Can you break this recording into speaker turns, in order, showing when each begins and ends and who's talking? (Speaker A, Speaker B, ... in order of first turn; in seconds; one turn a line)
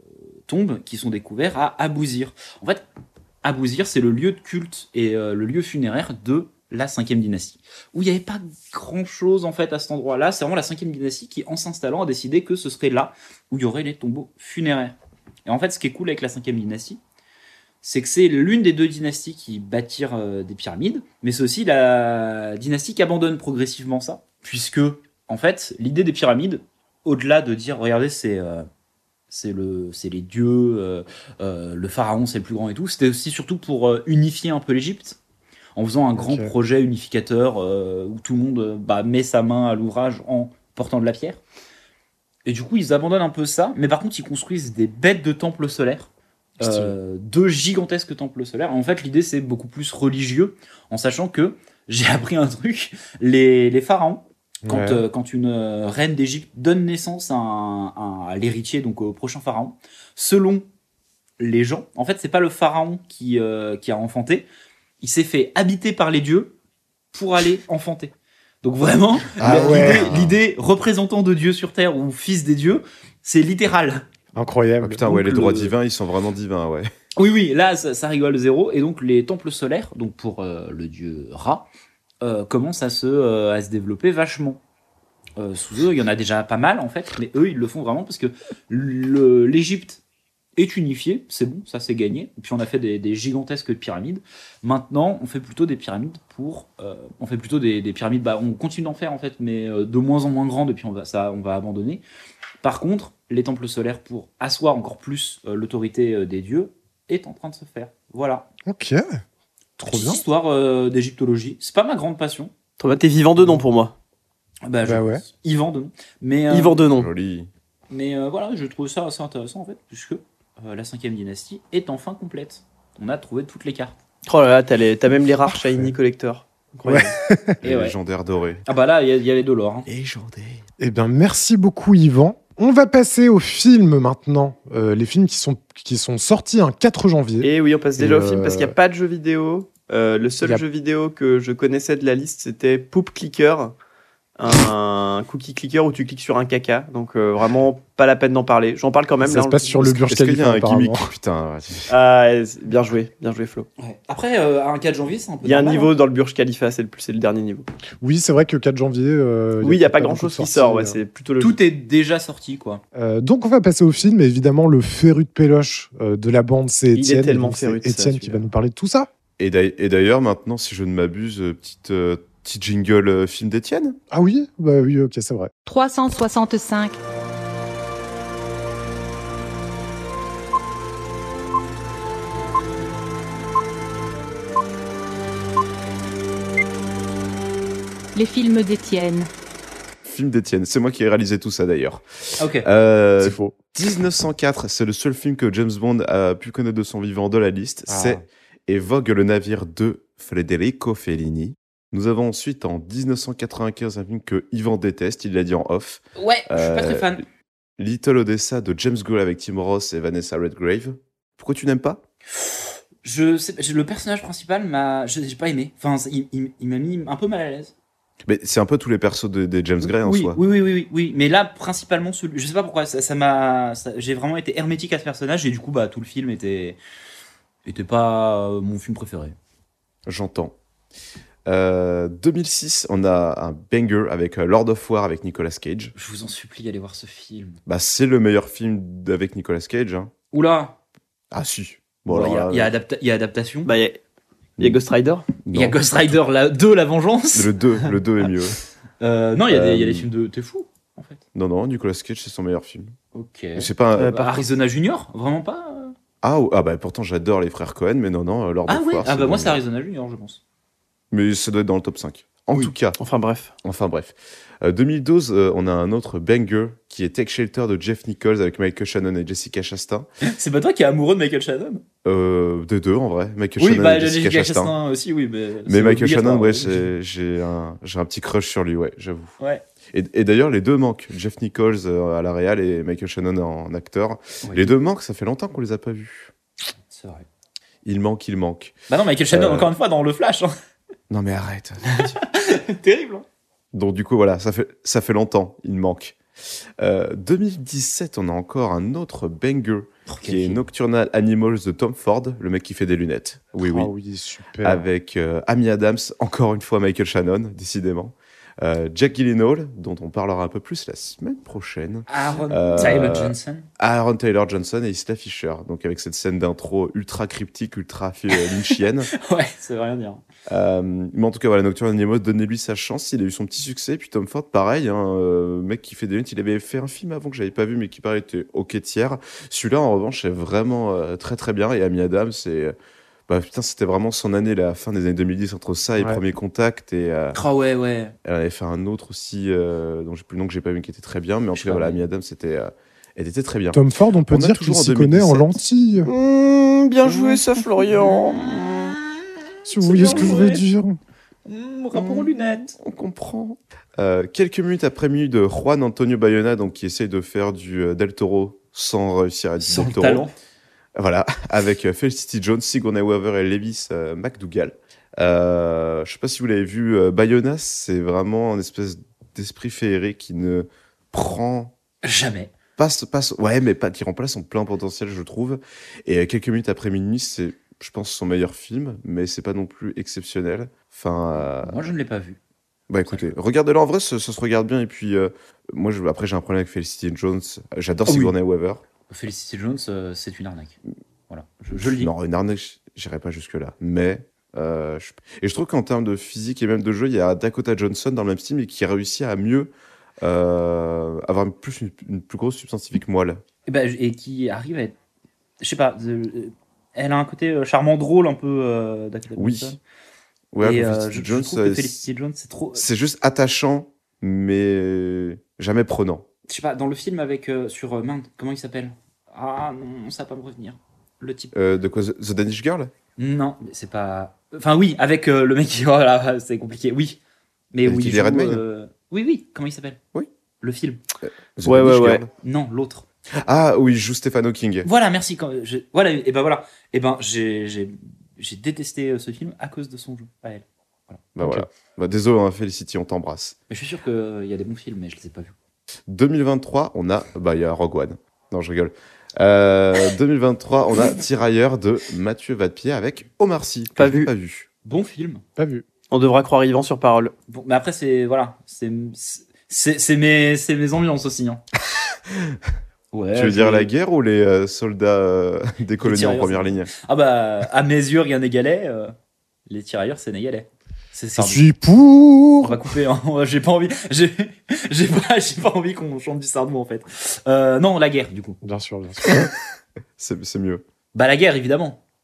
Speaker A: 0.5-2.9
Speaker A: 3.4-17.0
Speaker A: 17.8-28.7
Speaker A: 29.3-35.2
Speaker A: 35.8-41.4
Speaker B: 36.1-36.5
Speaker A: 42.5-60.7
Speaker B: 46.6-46.9
Speaker B: 54.7-55.0
Speaker A: 61.4-64.5
Speaker A: 65.0-66.6
Speaker A: 67.1-74.1
Speaker C: 69.4-70.4
Speaker B: 69.4-70.1
Speaker B: 74.3-75.1
Speaker C: 74.8-76.9
Speaker A: 75.1-75.8
Speaker A: 77.2-81.7
Speaker A: 82.2-84.6
Speaker A: 85.4-90.0
Speaker A: 90.6-102.0
Speaker A: 102.6-108.5
Speaker B: 108.7-109.2
Speaker B: 109.8-110.2
Speaker A: 109.9-112.5
Speaker D: 112.8-114.0
Speaker A: 114.7-116.8
Speaker B: 114.8-115.2
Speaker D: 116.5-117.1
Speaker C: 116.9-117.5
Speaker A: 117.9-124.0
Speaker D: 124.3-127.2
Speaker B: 126.9-127.6
Speaker A: 127.6-128.0
Speaker C: 127.6-128.6
Speaker A: 128.7-129.9
Speaker C: 129.9-130.6
Speaker B: 130.8-138.8
Speaker D: 137.4-143.8
Speaker D: 144.4-149.8
Speaker B: 149.2-151.1
Speaker C: 149.8-151.9
Speaker D: 151.9-153.7
Speaker A: 153.8-155.9
Speaker D: 155.4-157.7
Speaker B: 158.0-161.0
Speaker D: 159.6-161.6
Speaker A: 161.4-162.8
Speaker B: 162.9-169.1
Speaker D: 166.9-168.5
Speaker C: 169.4-174.0
Speaker B: 174.1-175.5
Speaker E: 175.7-177.0
Speaker E: 188.1-189.3
Speaker C: 190.1-207.2
Speaker A: 192.4-192.7
Speaker B: 193.2-193.6
Speaker B: 197.9-198.2
Speaker A: 206.2-207.2
Speaker C: 207.8-212.0
Speaker A: 212.4-217.7
Speaker C: 218.2-220.4
Speaker A: 219.8-226.8
Speaker A: 227.7-229.4
Speaker C: 230.1-230.6
Speaker C: 231.5-235.9
Speaker A: 236.0-237.6
Speaker C: 237.7-240.1
Speaker A: 240.3-240.8
Speaker C: 241.3-242.7
Speaker A: 242.1-243.7
Speaker D: 243.7-244.0
Speaker D: 244.6-245.3
Speaker C: 245.4-246.2
Speaker A: 245.5-247.6
Speaker C: 247.3-248.6
Speaker A: 249.0-251.2
Speaker C: 249.5-250.1
Speaker C: 251.3-252.9
Speaker A: 253.1-255.9
Speaker C: 253.6-254.2
Speaker D: 254.0-254.5
Speaker C: 256.2-259.6
Speaker A: 258.7-260.4
Speaker C: 261.1-263.0
Speaker D: 263.0-263.5
Speaker C: 263.6-270.1
Speaker A: 270.2-271.8
Speaker C: 272.0-274.7
Speaker A: 273.6-276.9
Speaker C: 275.7-279.4
Speaker C: 279.9-286.3
Speaker A: 284.4-284.7
Speaker A: 286.9-287.3
Speaker C: 287.9-288.8
Speaker A: 288.9-290.5
Speaker C: 289.3-289.7
Speaker C: 291.1-292.2
Speaker A: 292.1-293.2
Speaker C: 293.7-296.2
Speaker C: 296.8-303.9
Speaker A: 300.1-300.6
Speaker B: 303.6-304.9
Speaker C: 304.6-319.1
Speaker A: 312.1-313.7
Speaker A: 318.3-320.2
Speaker C: 320.5-332.8
Speaker C: 333.3-337.4
Speaker A: 337.3-338.1
Speaker C: 338.2-345.6
Speaker A: 341.5-342.0
Speaker B: 343.7-346.1
Speaker D: 346.0-348.7
Speaker A: 349.7-350.7
Speaker B: 349.7-351.0
Speaker A: 351.5-352.7
Speaker C: 351.9-360.3
Speaker A: 359.6-360.3
Speaker C: 361.0-371.7
Speaker A: 372.0-372.6
Speaker C: 372.8-381.9
Speaker A: 381.6-382.4
Speaker C: 382.9-388.9
Speaker A: 383.1-383.3
Speaker A: 388.1-388.3
Speaker A: 389.1-390.8
Speaker A: 391.3-392.1
Speaker C: 391.8-403.4
Speaker A: 403.7-404.9
Speaker A: 405.6-409.8
Speaker C: 409.4-409.8
Speaker C: 410.5-412.1
Speaker A: 410.6-412.9
Speaker C: 412.8-416.2
Speaker A: 416.5-421.5
Speaker C: 421.5-422.9
Speaker A: 423.2-427.2
Speaker A: 427.7-430.0
Speaker C: 427.9-428.6
Speaker A: 430.6-431.0
Speaker C: 431.3-432.3
Speaker D: 431.6-432.2
Speaker A: 432.4-433.1
Speaker C: 433.4-434.9
Speaker A: 434.9-441.2
Speaker C: 441.4-443.6
Speaker B: 441.4-441.7
Speaker A: 443.7-445.6
Speaker C: 446.1-454.7
Speaker D: 454.0-454.3
Speaker A: 454.9-455.4
Speaker B: 455.6-455.9
Speaker D: 456.1-457.3
Speaker A: 457.5-461.6
Speaker A: 463.1-463.9
Speaker C: 463.3-466.9
Speaker A: 466.0-469.1
Speaker A: 469.7-471.6
Speaker B: 471.4-472.9
Speaker A: 472.6-478.6
Speaker B: 478.6-479.5
Speaker C: 480.2-480.8
Speaker A: 481.1-482.0